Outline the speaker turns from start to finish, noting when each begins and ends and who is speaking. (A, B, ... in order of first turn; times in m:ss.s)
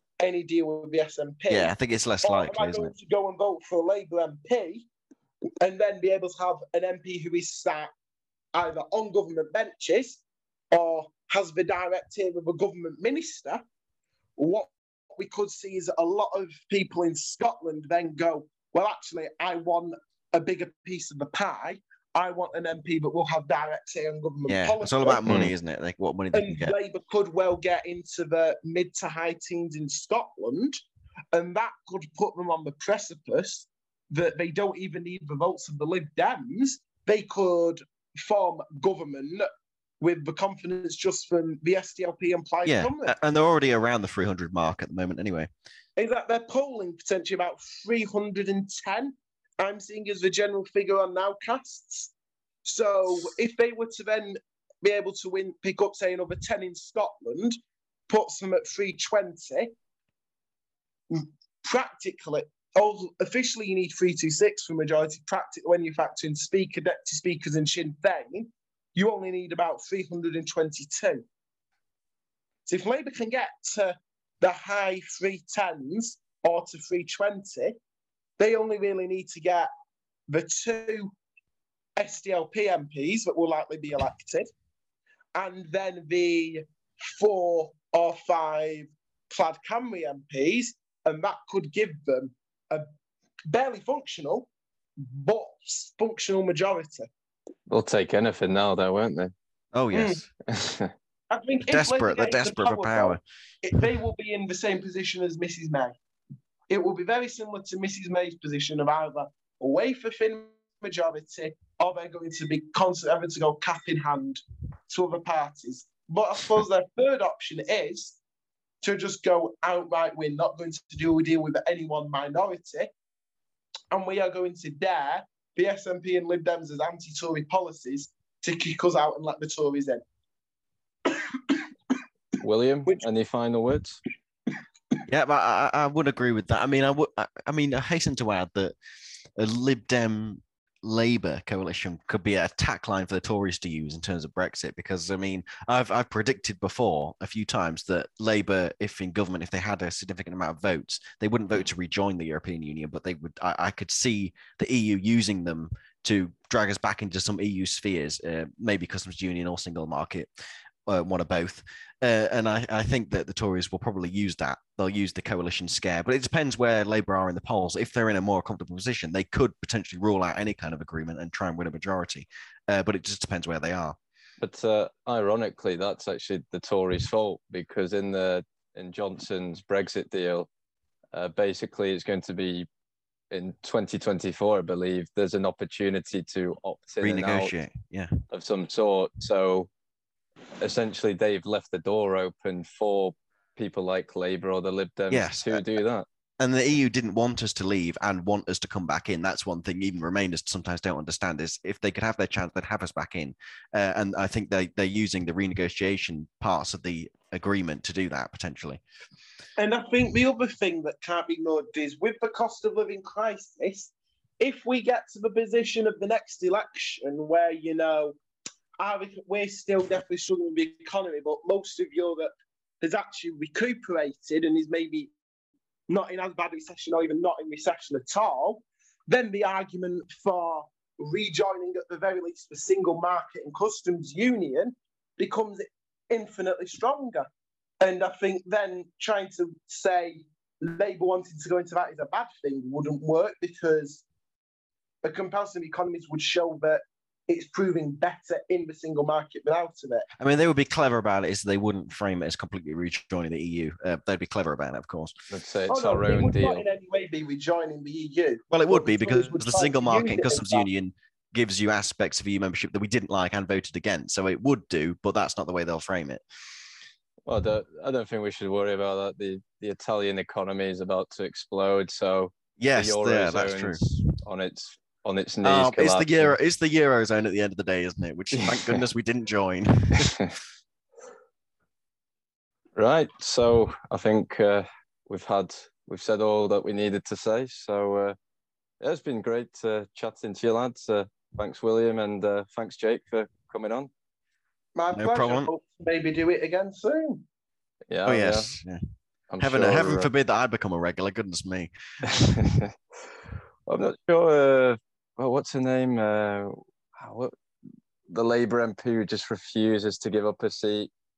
0:00.2-0:01.7 A
0:01.5-0:02.9 B
0:02.2-0:04.9 A
0:05.6-0:07.9 A
0:08.5-0:13.6 A
0:14.4-0:25.2 A
0:24.5-0:26.8 B
0:25.3-0:25.5 C
0:26.3-0:30.8 A
0:31.3-0:39.5 A
0:40.0-0:43.1 A
0:42.6-0:45.5 B
0:46.0-0:52.1 A
0:52.6-0:57.6 A
0:58.1-0:59.7 A
1:01.1-1:11.2 A
1:12.7-1:17.8 A
1:18.4-1:19.7 A
1:20.3-1:21.1 A
1:22.0-1:24.5 A
1:25.3-1:32.9 A
1:33.5-1:37.1 A
1:37.7-1:39.3 C
1:39.7-1:40.3 B
1:39.9-1:40.2 A
1:40.5-1:40.9 C
1:41.3-1:46.0 A
1:41.7-1:43.2 B
1:46.7-1:58.2 A
1:58.8-2:02.9 A
2:03.9-2:10.0 A
2:11.1-2:11.6 A
2:12.4-2:14.0 C
2:15.1-2:18.8 B
2:19.4-2:40.3 B
2:40.9-2:54.0 B
2:54.4-3:00.5 C
3:01.1-3:02.7 C
3:03.3-3:07.5 C
3:07.0-3:08.2 B
3:08.3-3:09.7 C
3:10.6-3:16.0 C
3:15.1-3:15.6 B
3:16.4-3:28.8 B
3:29.6-3:38.2 A
3:38.8-3:42.3 A
3:42.8-3:45.1 A
3:45.9-3:57.3 A
3:57.8-4:04.0 A
4:05.0-4:10.1 A
4:10.2-4:15.2 B
4:15.3-4:16.6 C
4:15.7-4:20.7 A
4:18.5-4:26.2 B
4:27.3-4:36.4 C
4:32.6-4:33.9 B
4:35.4-4:40.2 B
4:38.3-4:38.8 C
4:40.0-4:40.3 C
4:42.8-4:48.2 C
4:48.8-4:53.9 C
4:54.8-4:57.2 A
4:54.9-4:55.5 B
4:57.9-4:58.6 C
4:58.1-4:58.8 B
4:59.3-5:00.1 C
4:59.4-5:02.5 B
5:02.1-5:02.7 C
5:03.7-5:07.3 C
5:08.1-5:10.9 C